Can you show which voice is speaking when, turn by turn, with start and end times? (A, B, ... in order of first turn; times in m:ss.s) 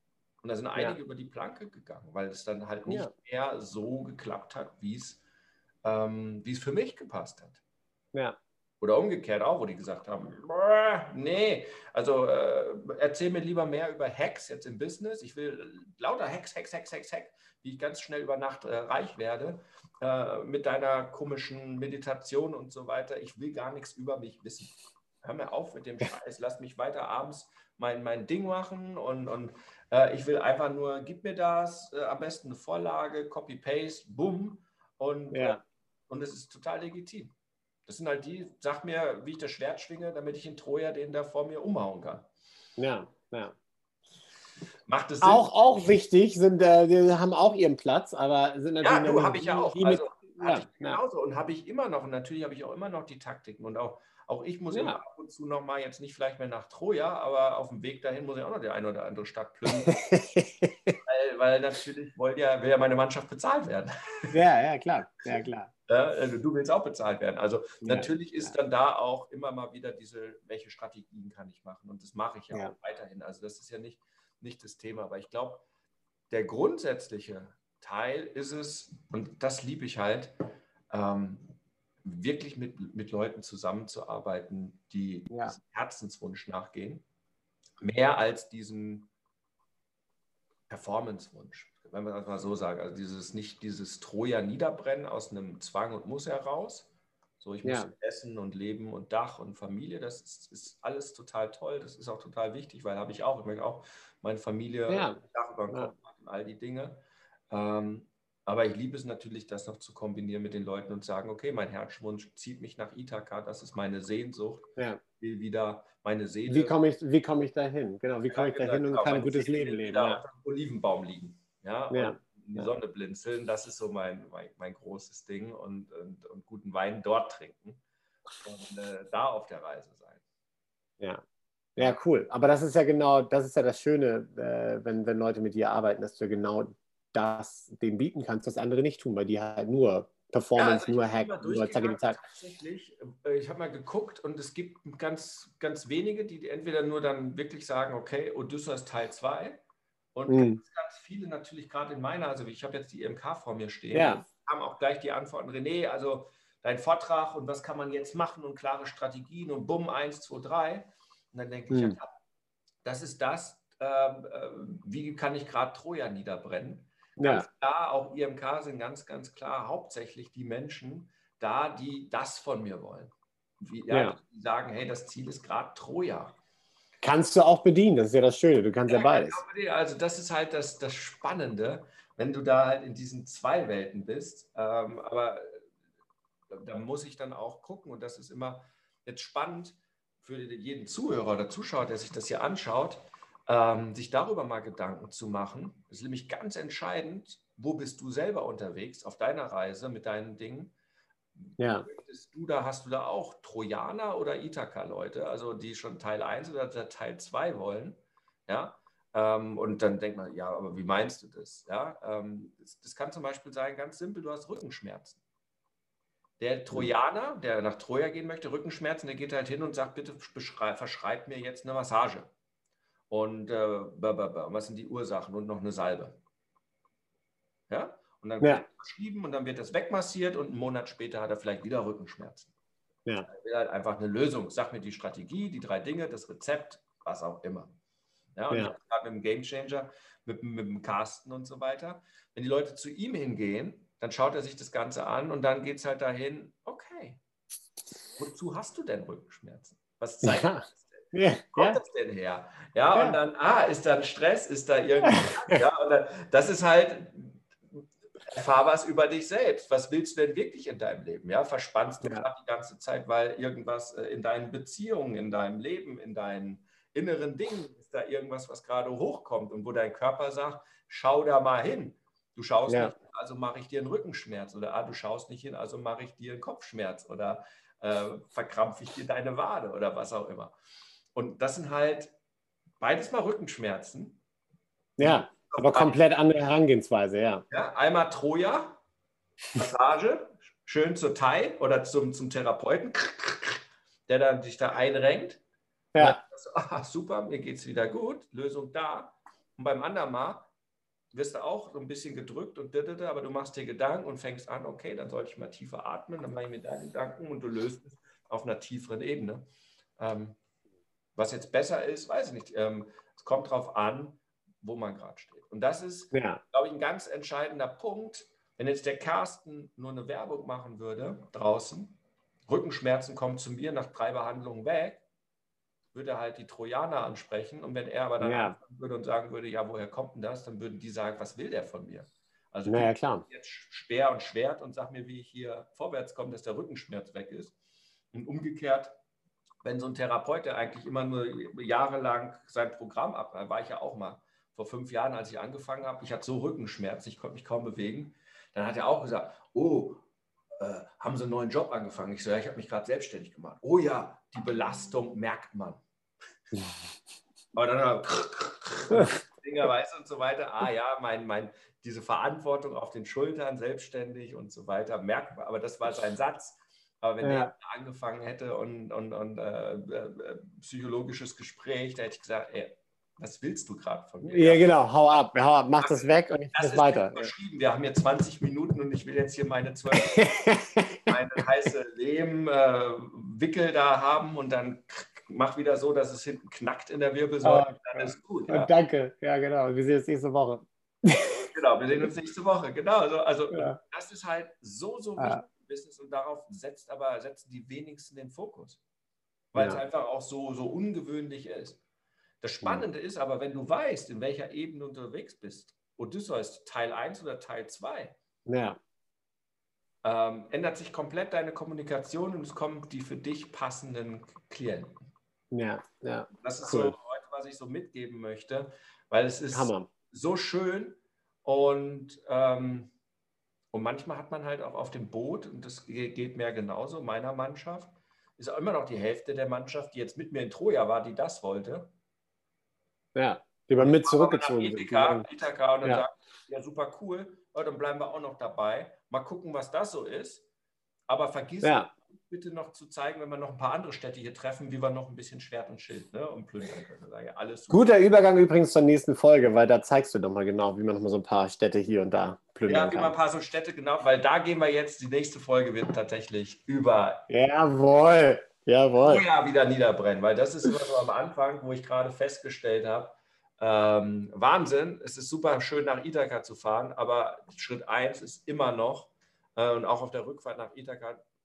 0:00.4-0:05.2 A
0:02.8-0:03.1 B
0:05.8-0:07.6 A
0:08.8-0:37.3 A
0:35.3-0:35.6 B
0:37.9-0:42.3 A
0:42.8-0:43.5 B
0:44.9-0:45.5 A
0:45.2-0:51.0 B
0:48.8-1:00.0 A
0:54.7-0:55.0 B
0:59.7-1:01.0 B
1:01.0-1:04.3 A
1:04.3-1:05.7 B
1:05.3-1:15.6 A
1:07.8-1:08.5 B
1:16.3-1:20.4 A
1:20.9-1:27.0 A
1:25.3-1:25.6 B
1:27.8-1:29.1 A
1:30.7-1:56.8 A
1:37.6-1:37.9 B
1:44.9-1:45.2 B
1:56.5-2:00.2 B
1:58.3-2:07.8 A
2:01.9-2:02.7 B
2:08.4-2:10.2 A
2:11.8-2:22.2 B
2:20.6-2:29.6 A
2:30.1-2:42.1 A
2:30.3-2:30.6 B
2:33.9-2:34.2 B
2:41.7-2:42.0 B
2:42.8-2:56.4 A
2:47.2-2:47.5 B
2:53.9-2:54.2 B
2:57.0-2:59.4 B
2:58.9-3:05.6 A
3:06.5-3:20.7 A
3:21.4-3:35.2 A
3:21.6-3:21.8 B
3:36.4-3:42.3 A
3:43.1-3:46.2 A
3:47.7-3:52.5 A
3:48.4-3:48.6 B
3:53.3-3:57.7 A
3:58.4-4:07.2 A
3:58.5-3:58.8 B
4:08.2-4:17.5 A
4:10.2-4:11.8 B
4:12.9-4:13.2 B
4:15.0-4:15.6 B
4:18.2-4:40.5 A
4:22.0-4:22.3 B
4:32.7-4:32.9 B
4:41.1-4:42.1 A
4:42.8-4:44.2 A
4:45.0-4:46.0 A
4:45.0-4:47.4 B
4:47.5-4:48.8 A
4:49.5-4:55.4 A
4:55.9-4:56.2 B
4:56.0-5:00.5 A
5:01.1-5:09.4 A
5:10.0-5:10.4 A
5:11.2-5:25.0 A
5:16.1-5:16.4 B
5:25.9-5:37.5 A
5:28.2-5:28.6 B
5:32.6-5:33.2 B
5:38.1-5:38.9 A
5:39.6-5:50.0 A
5:50.6-5:55.8 A
5:57.5-6:14.7 A
6:07.2-6:07.5 B
6:14.2-6:17.3 B
6:15.8-6:20.5 A
6:20.0-6:21.1 B
6:21.0-6:28.7 A
6:27.4-6:31.4 B
6:31.4-6:38.8 A
6:33.5-6:33.8 B
6:35.2-6:35.4 B
6:39.5-6:41.8 A
6:39.6-6:39.8 B
6:42.4-6:48.2 A
6:48.4-6:48.8 B
6:50.0-6:55.1 A
6:55.5-6:57.0 B
6:56.4-7:02.9 A
6:59.5-6:59.9 B
7:03.7-7:11.9 A
7:13.1-7:15.2 B
7:13.8-7:20.4 A
7:21.1-7:27.8 A
7:21.6-7:21.9 B
7:27.7-7:33.1 B
7:32.7-7:37.2 A
7:37.3-7:39.2 B
7:39.0-7:51.2 A